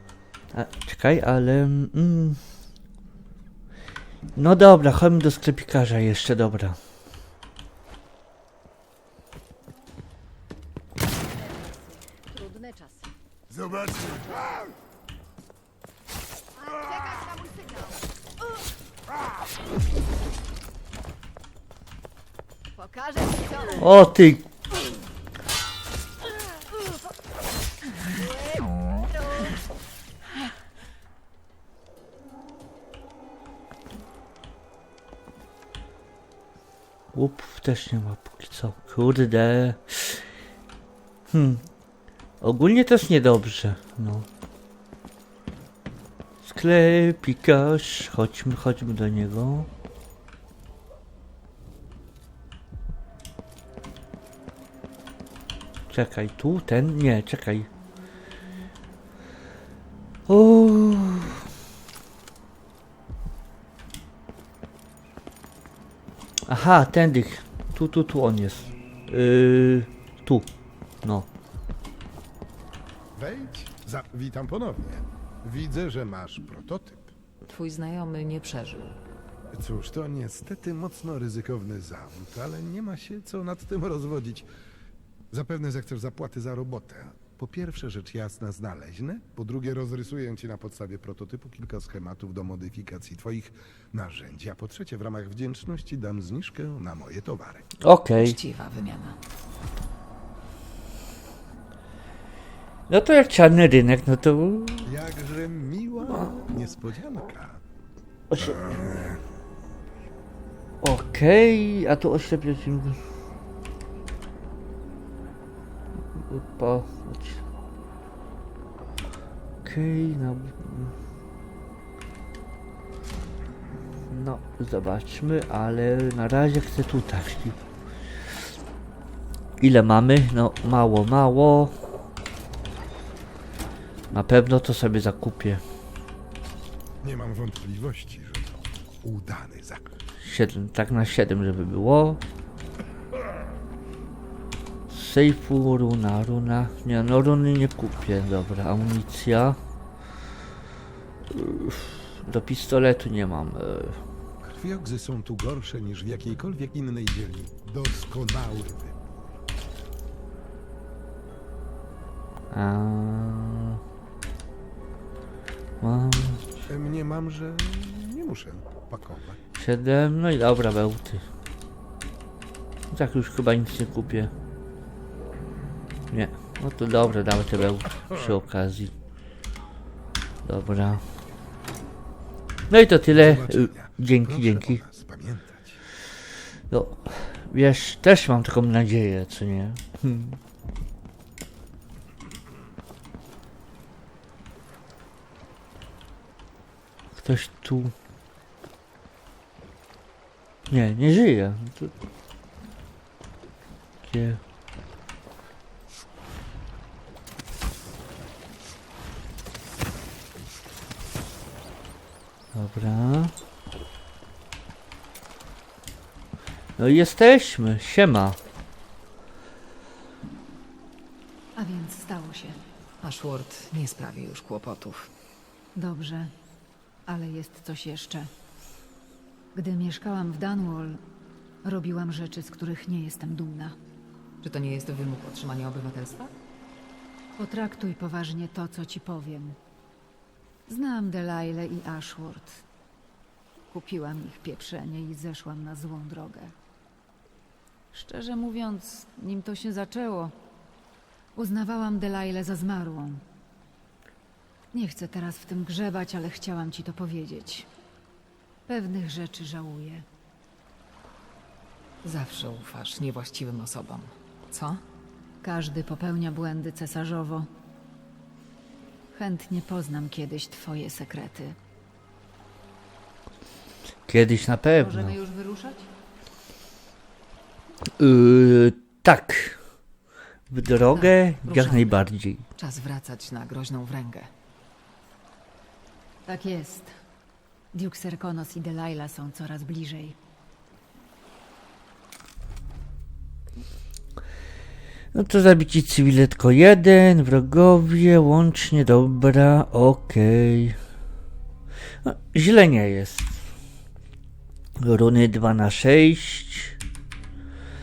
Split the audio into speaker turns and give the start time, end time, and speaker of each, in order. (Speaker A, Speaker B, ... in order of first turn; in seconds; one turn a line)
Speaker A: 0.5-2.4
Speaker A: 4.4-6.8
Speaker A: 23.8-24.5
Speaker A: 37.1-40.3
Speaker A: 41.3-41.6
Speaker A: 42.4-44.3
Speaker A: 46.4-49.7
Speaker A: 55.9-57.7
Speaker A: 60.3-61.4
Speaker A: 66.5-70.5
Speaker A: 71.0-71.3
Speaker B: 73.1-77.1
Speaker C: 77.5-79.0
Speaker B: 79.5-84.5
Speaker B: 85.3-97.7
Speaker A: 97.8-98.4
Speaker C: 98.2-99.2
Speaker A: 102.9-104.9
Speaker B: 104.9-107.6
Speaker A: 108.3-108.9
Speaker B: 108.4-109.2
Speaker A: 110.8-113.0
Speaker A: 116.2-117.4
Speaker A: 119.6-121.0
Speaker A: 124.1-127.6
Speaker A: 129.6-131.8
Speaker A: 134.1-135.6
Speaker B: 137.0-139.8
Speaker A: 140.2-142.2
Speaker A: 144.9-149.6
Speaker A: 151.3-154.0
Speaker B: 154.4-159.4
Speaker A: 162.5-163.8
Speaker A: 165.8-166.5
Speaker B: 166.7-169.4
Speaker A: 169.6-171.2
Speaker A: 172.9-174.3
Speaker A: 176.1-178.9
Speaker A: 180.4-181.1
Speaker A: 182.7-184.8
Speaker B: 183.1-185.8
Speaker A: 186.7-190.4
Speaker A: 197.2-197.9
Speaker A: 200.7-201.9
Speaker A: 204.0-204.4
Speaker A: 212.5-213.3
Speaker A: 216.8-218.4
Speaker D: 221.6-222.6
Speaker C: 223.0-225.1
Speaker D: 225.8-226.3
Speaker D: 227.1-228.3
Speaker D: 229.6-231.0
Speaker D: 231.6-233.8
Speaker C: 234.4-236.3
Speaker D: 237.4-239.6
Speaker D: 240.7-242.6
Speaker D: 243.7-246.6
Speaker D: 247.9-250.3
Speaker D: 251.3-253.2
Speaker D: 254.7-257.7
Speaker D: 258.7-260.1
Speaker C: 262.0-264.8
Speaker D: 265.4-267.5
Speaker D: 269.1-271.6
Speaker A: 274.1-275.2
Speaker D: 274.8-275.9
Speaker A: 278.0-279.6
Speaker A: 280.5-282.5
Speaker C: 280.9-282.0
Speaker C: 282.6-284.3
Speaker D: 286.3-287.0
Speaker D: 287.7-290.2
Speaker A: 295.1-300.8
Speaker A: 302.0-303.4
Speaker A: 304.8-306.8